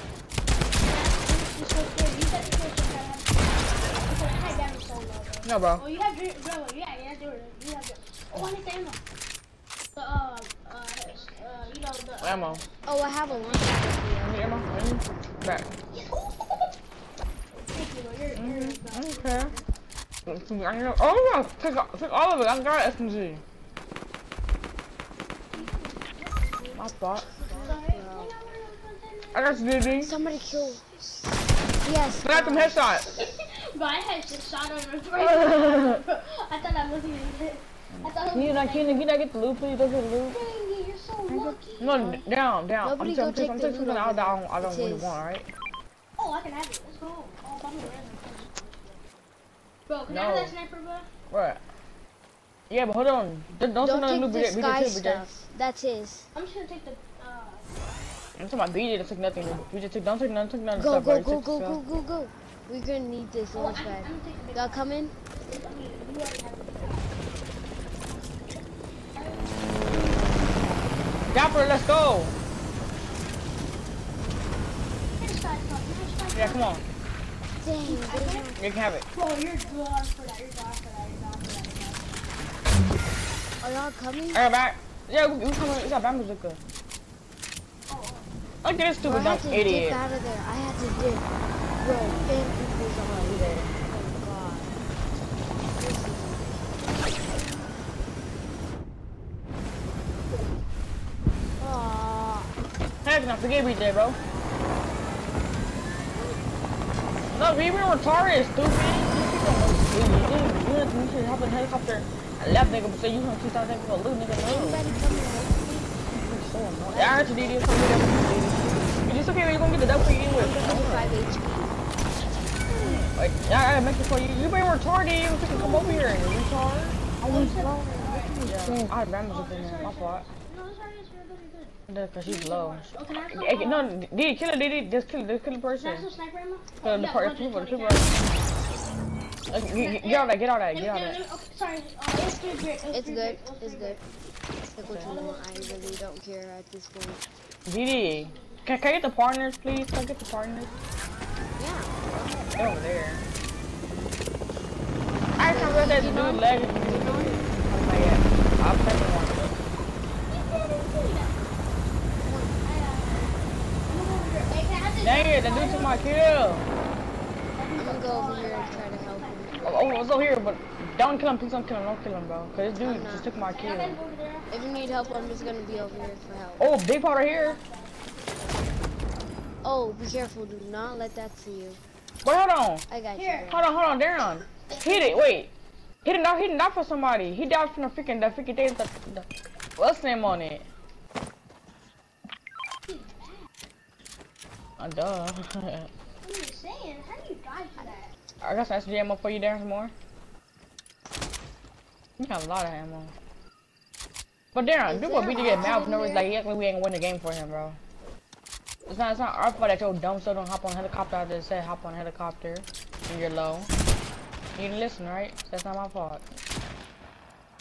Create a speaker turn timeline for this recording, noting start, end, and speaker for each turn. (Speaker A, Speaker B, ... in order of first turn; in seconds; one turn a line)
Speaker A: 0.8-9.0
Speaker B: 5.4-5.8
Speaker A: 9.9-13.9
Speaker B: 12.2-12.6
Speaker C: 12.8-14.8
Speaker B: 14.2-15.7
Speaker A: 15.9-16.7
Speaker A: 17.7-19.6
Speaker B: 18.3-19.6
Speaker B: 20.2-23.4
Speaker A: 25.5-30.4
Speaker B: 26.7-27.3
Speaker C: 27.4-28.3
Speaker B: 29.3-30.1
Speaker C: 30.0-30.9
Speaker C: 31.8-32.8
Speaker B: 32.2-33.2
Speaker A: 33.1-39.1
Speaker B: 38.2-40.4
Speaker A: 40.3-42.2
Speaker B: 41.8-45.5
Speaker C: 42.8-45.2
Speaker A: 46.2-49.0
Speaker A: 49.9-51.1
Speaker B: 50.1-50.5
Speaker B: 51.3-51.6
Speaker B: 52.7-55.3
Speaker C: 53.8-56.3
Speaker A: 56.3-57.7
Speaker B: 58.4-61.8
Speaker C: 60.7-65.1
Speaker A: 63.5-64.8
Speaker A: 65.5-67.2
Speaker A: 69.1-70.4
Speaker B: 71.3-72.3
Speaker A: 75.2-76.6
Speaker B: 76.3-76.8
Speaker C: 77.6-78.6
Speaker A: 77.8-78.5
Speaker B: 78.6-79.0
Speaker A: 79.1-82.2
Speaker C: 83.6-84.4
Speaker B: 84.3-86.6
Speaker A: 87.9-88.3
Speaker B: 88.6-90.0
Speaker C: 89.0-94.8
Speaker B: 93.1-93.7
Speaker C: 95.7-96.6
Speaker C: 101.6-102.5
Speaker B: 103.0-104.2
Speaker B: 107.3-114.9
Speaker C: 114.4-115.9
Speaker B: 116.1-121.2
Speaker C: 116.9-117.8
Speaker C: 120.3-121.7
Speaker A: 122.7-123.0
Speaker B: 122.7-127.7
Speaker A: 125.5-126.1
Speaker A: 127.2-128.5
Speaker B: 128.4-130.2
Speaker A: 129.3-133.9
Speaker B: 131.9-136.1
Speaker A: 135.8-138.3
Speaker B: 136.8-138.2
Speaker B: 139.5-141.2
Speaker A: 139.7-144.0
Speaker C: 142.9-144.0
Speaker C: 144.8-147.2
Speaker B: 144.8-145.1
Speaker A: 145.0-146.1
Speaker B: 147.7-150.7
Speaker A: 148.0-148.7
Speaker C: 151.6-152.0
Speaker B: 152.4-153.2
Speaker B: 155.4-159.4
Speaker C: 155.5-157.4
Speaker A: 156.9-157.4
Speaker A: 160.3-161.5
Speaker C: 162.2-162.6
Speaker A: 162.6-166.1
Speaker B: 165.0-166.7
Speaker A: 167.6-170.1
Speaker C: 167.8-169.6
Speaker B: 169.6-174.0
Speaker C: 172.8-173.3
Speaker A: 173.5-178.6
Speaker C: 174.5-176.7
Speaker B: 176.6-177.6
Speaker C: 179.6-181.8
Speaker B: 182.2-182.8
Speaker C: 182.9-183.6
Speaker A: 183.2-183.5
Speaker B: 183.5-185.5
Speaker A: 184.7-185.2
Speaker B: 186.0-190.6
Speaker A: 192.9-193.4
Speaker B: 194.8-195.9
Speaker A: 196.2-198.1
Speaker B: 198.4-199.9
Speaker B: 202.2-203.1
Speaker B: 204.5-207.8
Speaker A: 204.9-206.2
Speaker C: 204.9-206.2
Speaker B: 208.9-213.7
Speaker B: 214.6-216.2